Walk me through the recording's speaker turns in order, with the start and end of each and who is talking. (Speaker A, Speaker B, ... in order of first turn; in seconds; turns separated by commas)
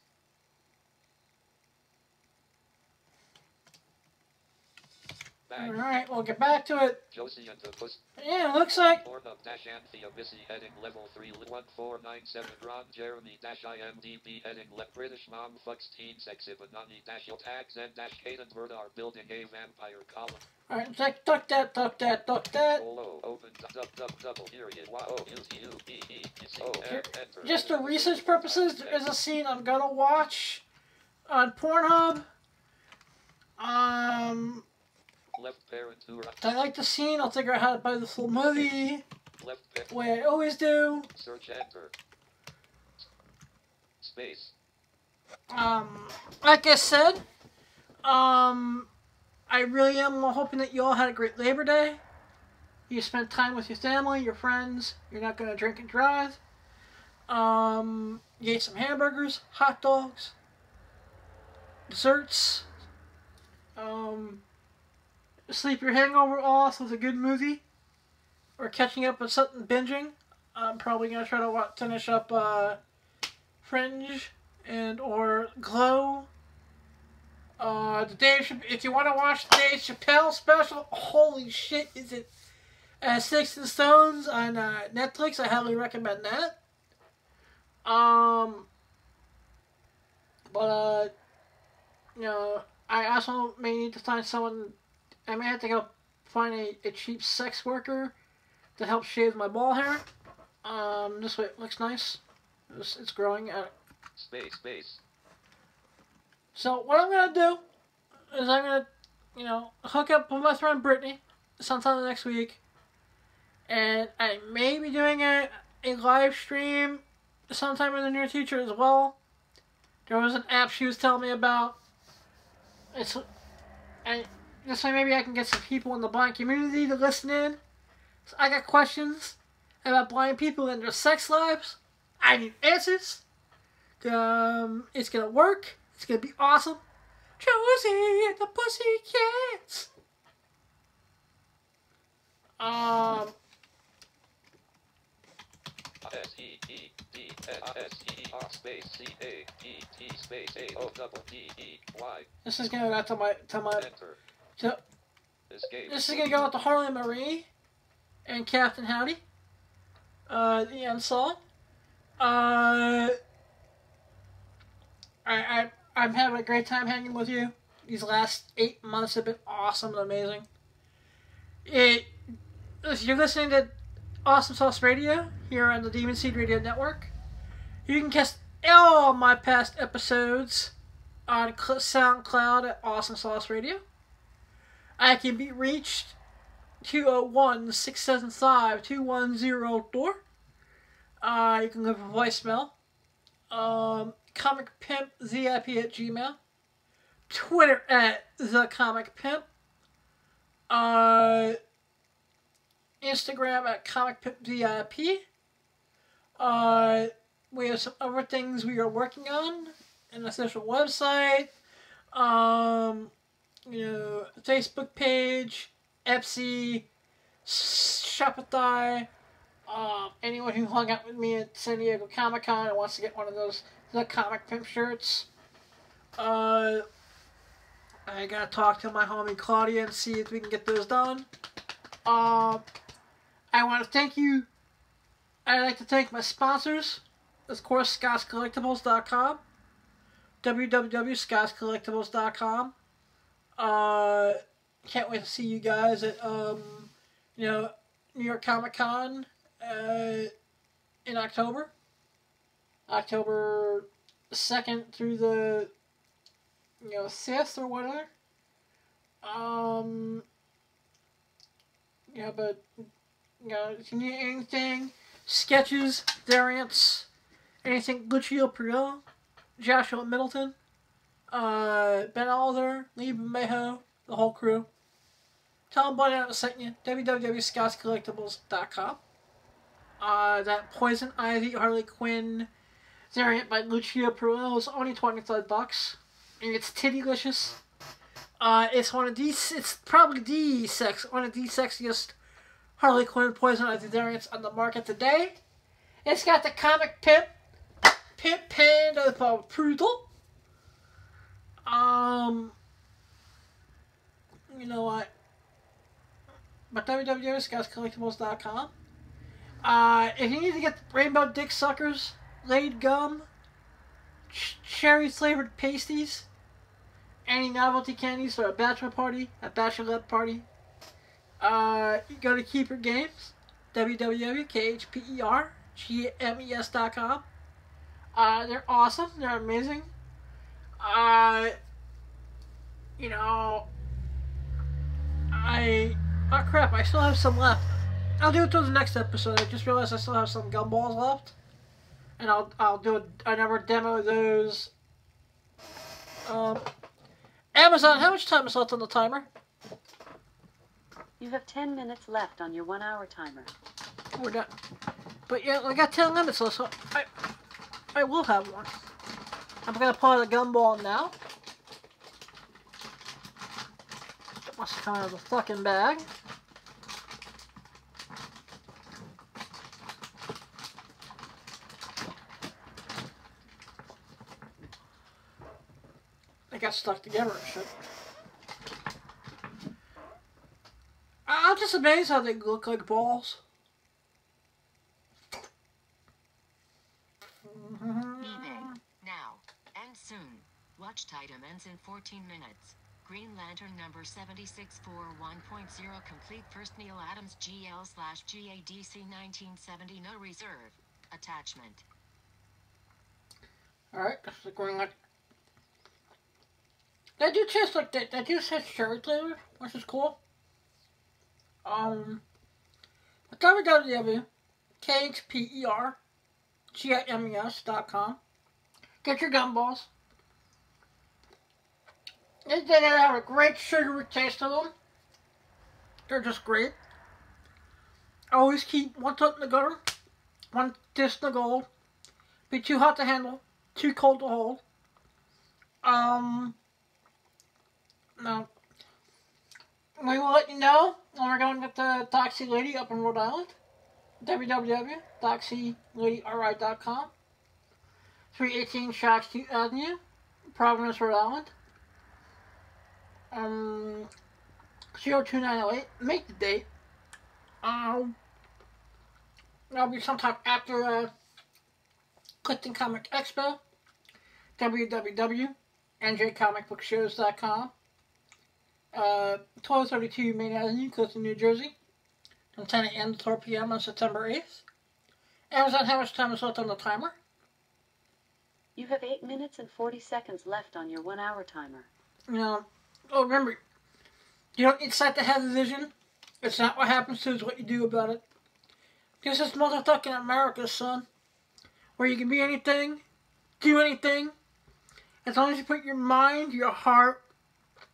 Speaker A: 5.5-5.9, Speaker B: 5.6-7.0, Speaker A: 7.1-8.0, Speaker B: 8.2-9.0, Speaker A: 8.9-20.4, Speaker B: 20.7-22.8, Speaker A: 22.7-29.0, Speaker B: 26.8-30.6, Speaker B: 31.3-32.3, Speaker B: 33.6-34.7, Speaker A: 35.3-36.4, Speaker B: 36.4-39.0, Speaker A: 39.4-40.0, Speaker B: 39.9-41.1, Speaker A: 41.1-41.9, Speaker A: 44.0-44.5, Speaker B: 45.5-47.2, Speaker B: 48.0-48.9, Speaker B: 49.5-52.0, Speaker B: 52.9-56.4, Speaker B: 57.3-60.4, Speaker B: 61.9-62.7, Speaker B: 63.8-64.4, Speaker B: 65.5-67.6, Speaker B: 68.6-72.8, Speaker B: 73.6-76.3, Speaker B: 77.6-82.3, Speaker B: 83.0-86.6, Speaker B: 87.8-88.7, Speaker B: 90.5-91.1, Speaker B: 92.2-94.8, Speaker B: 95.3-98.2, Speaker B: 98.8-100.0, Speaker B: 100.6-103.7, Speaker A: 104.2-105.0, Speaker B: 106.5-107.6, Speaker B: 108.3-112.6, Speaker B: 113.7-119.2, Speaker B: 120.1-121.8, Speaker B: 122.9-123.2, Speaker B: 124.0-127.6, Speaker B: 128.3-133.2, Speaker B: 134.0-136.8, Speaker B: 137.4-139.9, Speaker B: 142.6-143.3, Speaker A: 146.1-152.3, Speaker B: 152.4-153.9, Speaker A: 153.8-154.2, Speaker A: 155.5-156.5, Speaker B: 155.9-157.5, Speaker B: 158.3-159.2, Speaker B: 160.3-161.4, Speaker B: 162.2-163.2, Speaker B: 165.2-170.5, Speaker B: 171.7-172.1, Speaker B: 172.8-173.7, Speaker B: 174.2-177.1, Speaker B: 177.9-180.7, Speaker B: 181.3-183.8, Speaker B: 185.0-186.2, Speaker B: 186.8-190.2, Speaker B: 191.2-192.7, Speaker B: 193.5-196.4, Speaker B: 197.3-199.4, Speaker B: 200.7-201.6, Speaker B: 203.0-205.2, Speaker B: 206.4-211.5, Speaker B: 212.1-213.1, Speaker B: 213.7-216.9, Speaker B: 217.4-219.1, Speaker B: 219.7-225.3, Speaker B: 226.2-226.8, Speaker B: 228.1-231.3, Speaker B: 232.1-232.6, Speaker B: 233.5-234.5, Speaker B: 235.4-239.4, Speaker B: 240.4-242.7, Speaker B: 243.6-250.3, Speaker B: 251.1-251.7, Speaker B: 252.9-255.7, Speaker B: 256.8-258.1, Speaker B: 259.2-260.2, Speaker B: 262.1-262.7, Speaker B: 263.4-267.1, Speaker B: 267.6-269.0, Speaker B: 269.6-270.6, Speaker B: 271.3-274.7, Speaker B: 275.7-279.0, Speaker B: 280.0-282.5, Speaker B: 283.1-287.6, Speaker B: 288.4-292.1, Speaker B: 292.8-295.4, Speaker B: 296.1-297.3, Speaker B: 298.2-300.1, Speaker B: 301.6-302.6, Speaker B: 304.5-305.1, Speaker B: 306.7-308.7, Speaker B: 309.6-313.3, Speaker B: 314.3-316.3, Speaker B: 317.3-320.5, Speaker B: 321.4-327.3, Speaker B: 328.1-329.9, Speaker B: 330.8-331.6, Speaker B: 333.0-333.7, Speaker B: 335.3-341.4, Speaker B: 342.2-344.7, Speaker B: 346.3-346.6, Speaker B: 347.6-349.3, Speaker C: 351.2-353.5, Speaker B: 354.2-354.5, Speaker B: 355.3-357.1, Speaker B: 357.9-358.7, Speaker B: 359.6-361.1, Speaker B: 364.6-366.1, Speaker B: 376.5-377.7, Speaker B: 381.3-383.4, Speaker B: 387.4-388.8, Speaker D: 388.2-401.9, Speaker B: 403.9-404.9, Speaker B: 407.2-410.2, Speaker B: 411.6-412.2, Speaker B: 413.3-414.3, Speaker B: 414.8-416.0, Speaker B: 416.7-418.2, Speaker B: 419.0-419.9, Speaker B: 422.5-424.7, Speaker B: 426.1-426.8, Speaker B: 428.3-429.8, Speaker B: 430.5-431.7, Speaker B: 432.5-434.6, Speaker B: 435.8-436.6, Speaker B: 438.2-438.5, Speaker B: 440.0-443.6, Speaker B: 444.2-447.1, Speaker B: 448.3-450.0, Speaker B: 450.5-451.5, Speaker B: 453.3-454.1, Speaker B: 455.0-456.7, Speaker B: 457.6-458.2, Speaker B: 459.7-461.1, Speaker B: 462.4-463.6, Speaker B: 464.6-467.7, Speaker B: 468.9-471.8, Speaker B: 472.6-474.6, Speaker B: 475.5-477.2, Speaker C: 478.8-481.9, Speaker B: 482.3-483.6, Speaker B: 484.6-488.2, Speaker B: 489.2-491.1, Speaker B: 492.0-493.0, Speaker B: 493.6-494.4, Speaker B: 495.2-497.2